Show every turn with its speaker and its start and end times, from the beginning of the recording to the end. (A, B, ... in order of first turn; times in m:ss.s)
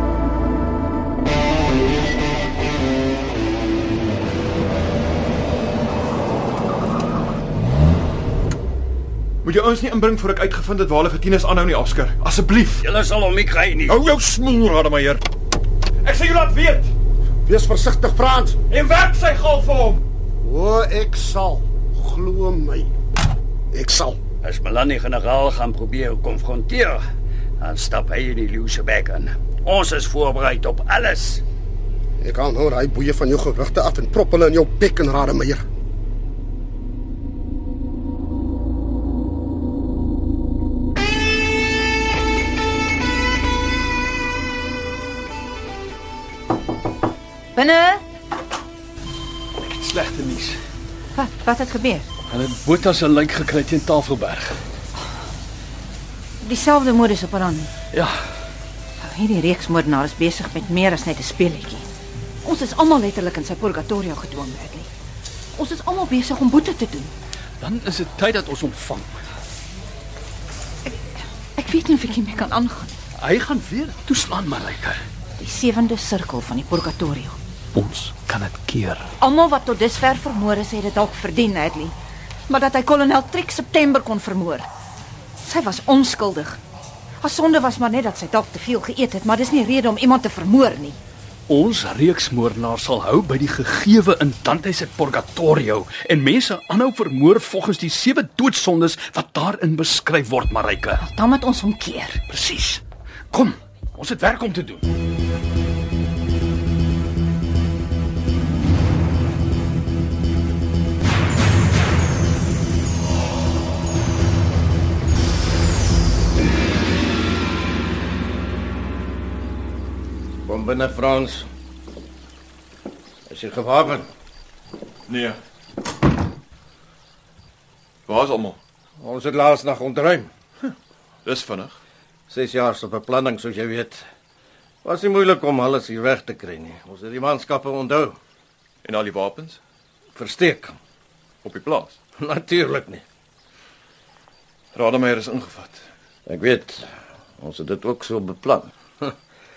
0:09.4-0:12.8 A
0:12.8-0:14.0 B
0:13.9-0:15.2 A
0:16.0-0:16.9 A
0:17.4-0:18.6 C
0:18.7-0:20.0 A
0:20.4-0:22.9 C
0:23.7-0:24.2 C
0:24.4-0:27.0 B
0:27.6-0:31.4 B
0:32.2-0:35.6 C
0:47.5-0:48.0 D
0:49.7-0:50.6 E
0:51.1-0:52.1 D
0:52.3-0:54.6 E
0:56.4-0:57.7 D
0:57.9-0:58.2 E
0:59.0-1:01.9 D
1:02.4-1:04.9 D
1:05.5-1:07.1 D
1:07.6-1:09.1 E
1:11.6-1:13.0 D
1:13.2-1:15.0 E
1:15.4-1:17.4 D
1:17.7-1:19.1 E
1:19.2-1:21.9 D
1:22.5-1:24.7 D
1:25.4-1:26.6 D
1:27.2-1:31.0 D
1:31.5-1:41.0 E
1:41.0-1:42.2 D
1:42.3-1:44.8 E
2:00.5-2:01.5 F
2:03.3-2:04.0 F
2:05.1-2:05.4 A
2:08.1-2:08.6 A
2:09.0-2:10.3 F
2:11.2-2:11.8 A
2:12.3-2:14.0 F
2:14.8-2:18.2 F
2:18.8-2:19.6 A
2:20.2-2:20.7 F
2:21.4-2:22.0 A
2:22.2-2:23.0 F
2:24.7-2:25.8 A
2:26.3-2:26.9 F
2:27.4-2:29.1 F